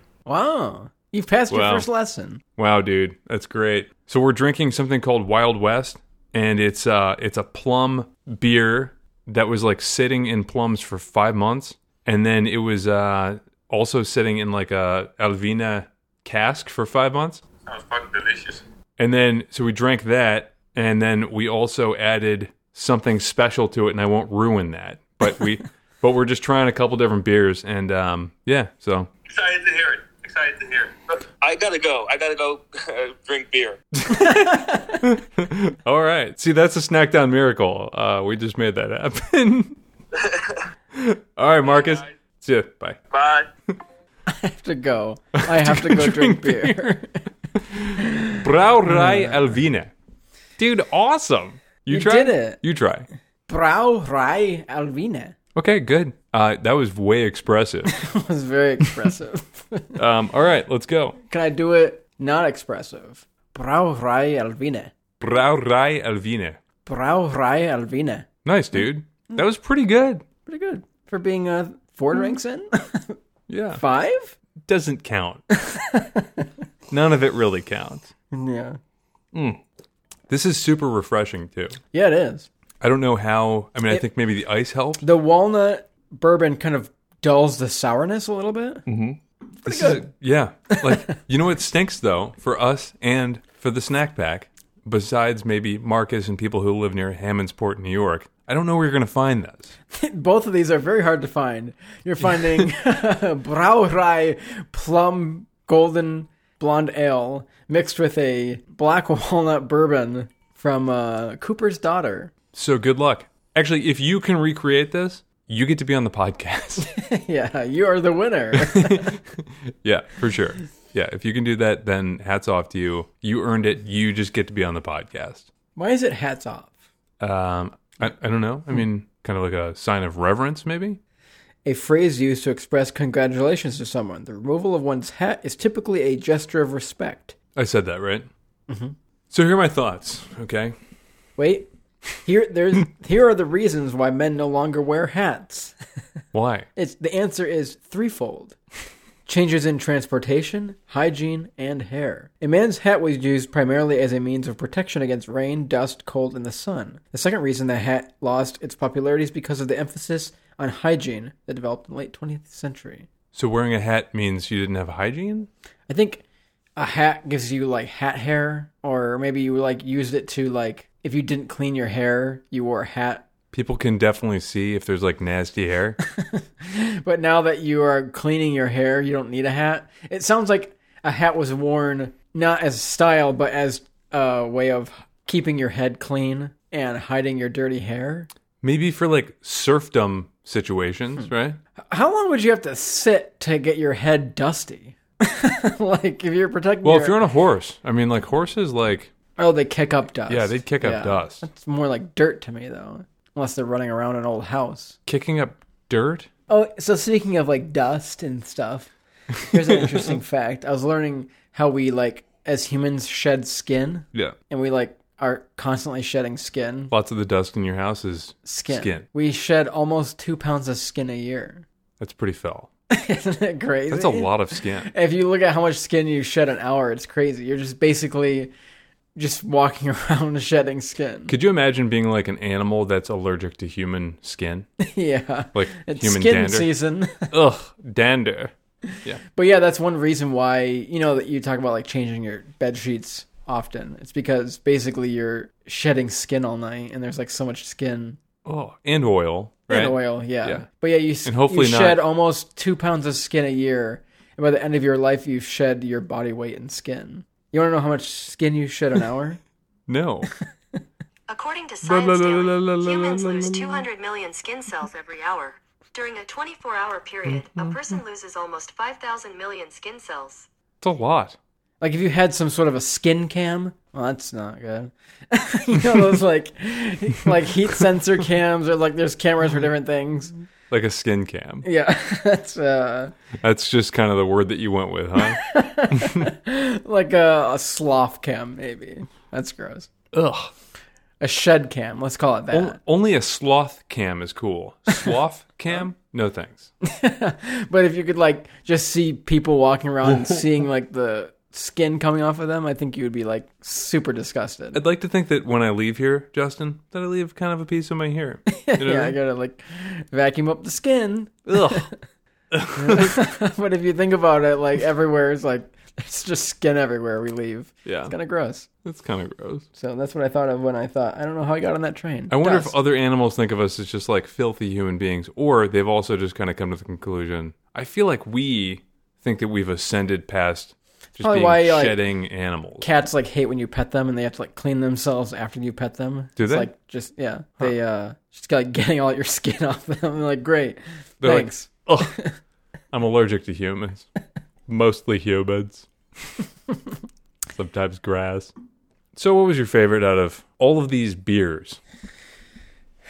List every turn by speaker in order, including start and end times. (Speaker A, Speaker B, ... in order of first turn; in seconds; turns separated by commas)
Speaker A: 0.2-2.4, Speaker B: 1.5-1.9, Speaker B: 2.6-17.4, Speaker C: 17.7-18.6, Speaker B: 19.0-29.1, Speaker C: 29.3-33.8, Speaker B: 34.0-39.8, Speaker A: 34.1-35.1, Speaker C: 40.1-40.6, Speaker B: 40.9-43.0, Speaker C: 41.7-42.0, Speaker C: 43.1-43.5, Speaker A: 44.3-47.2, Speaker B: 45.4-47.0, Speaker B: 47.5-49.9, Speaker A: 48.0-49.5, Speaker B: 50.6-53.1, Speaker A: 51.9-52.6, Speaker A: 53.5-55.3, Speaker B: 55.5-58.0, Speaker A: 57.9-60.0, Speaker B: 60.0-61.2, Speaker A: 61.2-64.9, Speaker B: 65.2-66.6, Speaker A: 66.8-68.2, Speaker B: 68.4-70.2, Speaker A: 70.5-73.2, Speaker B: 73.5-73.8, Speaker A: 73.8-74.3, Speaker B: 74.6-75.4, Speaker A: 75.5-76.5, Speaker B: 76.9-78.1, Speaker A: 78.3-78.8, Speaker B: 79.3-79.6, Speaker B: 80.3-81.8, Speaker A: 81.9-82.5, Speaker B: 82.8-85.0, Speaker A: 85.0-88.9, Speaker B: 88.9-99.7, Speaker A: 89.6-90.0, Speaker A: 90.7-91.2, Speaker A: 99.9-112.3, Speaker B: 112.5-116.9, Speaker A: 116.9-119.2, Speaker B: 118.5-125.5, Speaker A: 125.8-126.7, Speaker B: 127.2-131.0, Speaker A: 131.6-137.3, Speaker B: 137.5-138.3, Speaker A: 138.7-138.9, Speaker B: 139.3-140.7, Speaker A: 141.4-141.7, Speaker A: 142.2-145.7, Speaker B: 146.3-146.7, Speaker A: 146.8-148.6, Speaker A: 149.2-163.1, Speaker B: 163.3-165.5, Speaker A: 165.9-166.2, Speaker A: 166.8-173.3, Speaker B: 173.5-176.0, Speaker A: 176.1-188.3, Speaker B: 188.6-191.6, Speaker A: 191.8-197.2, Speaker B: 196.8-199.1, Speaker A: 199.4-205.0, Speaker B: 200.3-201.4, Speaker B: 205.1-206.3, Speaker A: 206.5-208.9, Speaker A: 209.4-216.9, Speaker B: 209.5-210.1, Speaker B: 216.9-219.0, Speaker A: 218.4-221.7, Speaker B: 222.0-222.7, Speaker A: 222.9-228.5, Speaker B: 223.9-224.9, Speaker A: 229.2-231.3, Speaker B: 231.3-234.7, Speaker A: 234.8-237.3, Speaker B: 235.5-236.7, Speaker B: 237.3-238.5, Speaker A: 238.9-248.2, Speaker B: 248.4-250.7, Speaker A: 249.7-259.4, Speaker B: 251.2-252.0, Speaker B: 259.9-260.3, Speaker D: 261.3-270.5, Speaker B: 261.8-263.9, Speaker B: 267.3-267.9, Speaker B: 270.8-271.4, Speaker A: 271.8-280.3, Speaker B: 280.7-281.6, Speaker A: 281.6-283.1, Speaker B: 283.4-286.3, Speaker A: 285.2-289.9, Speaker B: 290.1-290.5, Speaker A: 291.2-292.8, Speaker B: 292.5-296.7, Speaker A: 296.8-304.8, Speaker B: 304.7-309.2, Speaker A: 308.5-311.9, Speaker B: 311.5-311.9, Speaker B: 312.5-313.2, Speaker A: 312.7-318.7, Speaker B: 317.8-318.1, Speaker B: 318.8-319.6, Speaker A: 319.7-322.7, Speaker B: 322.3-332.9, Speaker A: 331.2-332.0, Speaker A: 332.8-342.4, Speaker B: 336.4-336.7, Speaker B: 341.2-342.1, Speaker B: 342.9-344.1, Speaker B: 344.7-345.9, Speaker B: 347.5-348.5, Speaker B: 349.1-351.8